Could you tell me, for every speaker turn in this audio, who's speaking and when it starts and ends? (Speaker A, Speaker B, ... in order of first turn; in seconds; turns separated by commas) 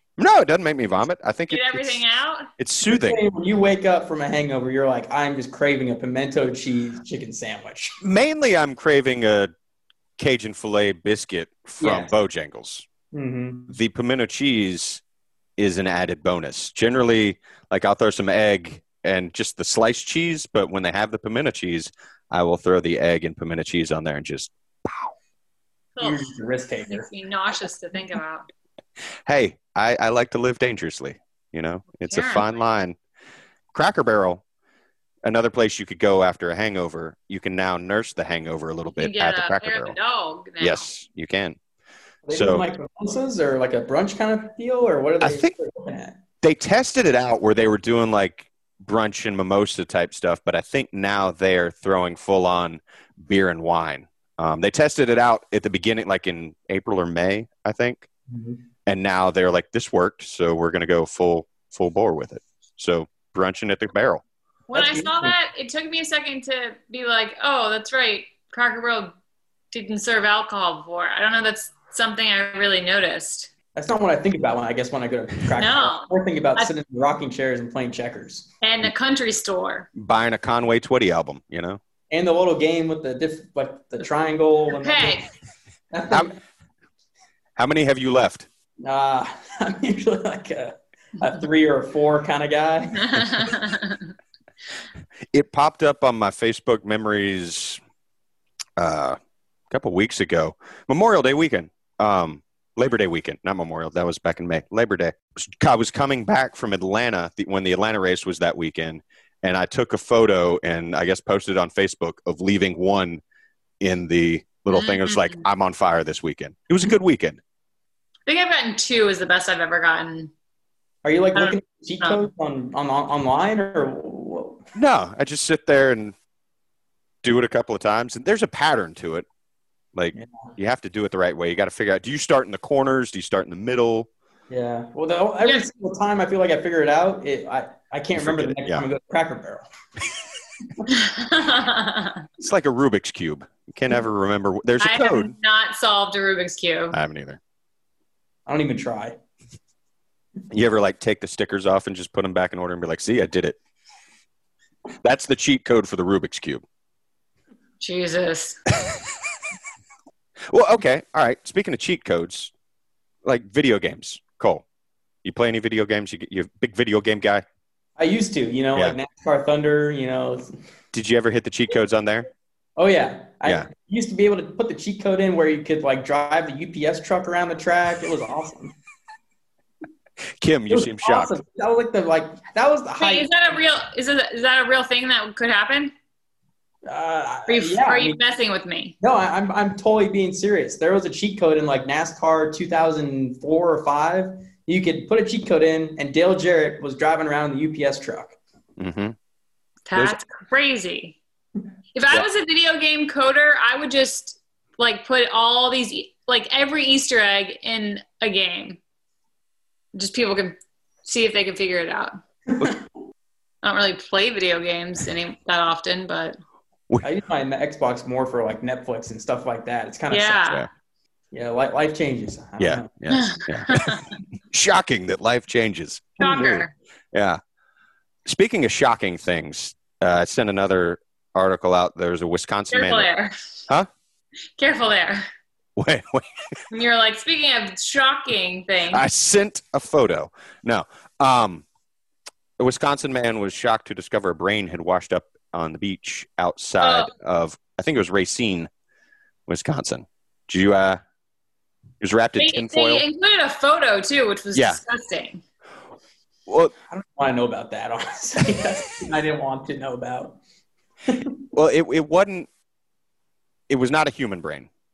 Speaker A: 0.2-2.0, Speaker B: 1.5-2.5, Speaker A: 2.6-3.2, Speaker C: 2.8-8.0, Speaker A: 8.0-9.5, Speaker A: 10.2-12.8, Speaker C: 11.8-12.1, Speaker C: 13.1-13.7, Speaker A: 13.7-15.0, Speaker A: 15.6-25.1, Speaker B: 25.9-26.3, Speaker C: 26.0-27.1, Speaker B: 26.9-28.5, Speaker A: 29.2-33.0, Speaker B: 32.0-32.6, Speaker A: 33.7-34.4, Speaker A: 35.2-40.0, Speaker B: 39.0-40.9, Speaker A: 40.6-41.6, Speaker C: 42.2-46.2, Speaker A: 42.3-42.6, Speaker A: 45.2-45.5, Speaker A: 46.4-58.1, Speaker C: 58.3-58.6, Speaker A: 58.9-64.2, Speaker B: 64.7-69.1, Speaker C: 64.7-65.3, Speaker B: 69.7-73.5, Speaker C: 73.7-78.5, Speaker B: 75.5-76.7, Speaker B: 78.6-79.9, Speaker A: 80.0-81.8, Speaker C: 82.1-85.2, Speaker B: 84.8-85.3, Speaker C: 85.9-86.3, Speaker A: 87.5-88.5, Speaker C: 88.8-93.5, Speaker B: 93.0-94.1, Speaker A: 95.3-97.8, Speaker A: 98.8-99.2, Speaker A: 99.7-113.2, Speaker A: 113.8-117.4, Speaker B: 114.7-115.4, Speaker B: 118.3-120.3, Speaker C: 121.0-124.6, Speaker B: 121.3-122.2, Speaker A: 124.7-126.1, Speaker A: 127.2-129.2, Speaker A: 129.9-134.1, Speaker C: 130.1-130.5, Speaker C: 134.5-139.6, Speaker A: 138.1-138.8, Speaker B: 140.9-142.2, Speaker A: 142.4-145.3, Speaker B: 144.8-147.0, Speaker A: 146.9-147.4, Speaker C: 148.5-149.2, Speaker A: 150.5-153.6, Speaker A: 155.0-156.6, Speaker B: 157.8-158.6, Speaker A: 160.5-162.5, Speaker A: 163.2-164.6, Speaker A: 165.2-167.4, Speaker C: 168.0-170.5, Speaker A: 170.9-172.3, Speaker C: 172.8-178.8, Speaker A: 180.4-181.4, Speaker C: 180.7-183.4, Speaker B: 183.0-185.9, Speaker C: 186.8-188.2, Speaker B: 187.5-188.9, Speaker C: 189.0-198.3, Speaker A: 198.8-199.1, Speaker B: 199.9-201.2, Speaker B: 201.9-208.8, Speaker B: 209.9-212.2, Speaker B: 213.6-216.4, Speaker C: 217.0-220.4, Speaker B: 220.1-220.7, Speaker C: 221.3-222.9, Speaker A: 222.6-224.0, Speaker B: 223.1-224.1, Speaker A: 224.5-227.4, Speaker B: 226.2-226.7, Speaker A: 228.2-233.1, Speaker B: 232.7-233.3, Speaker B: 234.6-235.2, Speaker A: 235.8-236.3, Speaker B: 236.7-239.0, Speaker A: 238.9-241.6, Speaker A: 242.6-248.7, Speaker B: 246.8-247.1, Speaker A: 249.5-251.0, Speaker A: 252.0-253.0, Speaker B: 252.4-255.4, Speaker A: 254.5-254.8, Speaker A: 256.5-256.7, Speaker C: 256.9-260.4, Speaker C: 261.1-261.4, Speaker A: 261.5-262.5, Speaker A: 263.7-264.7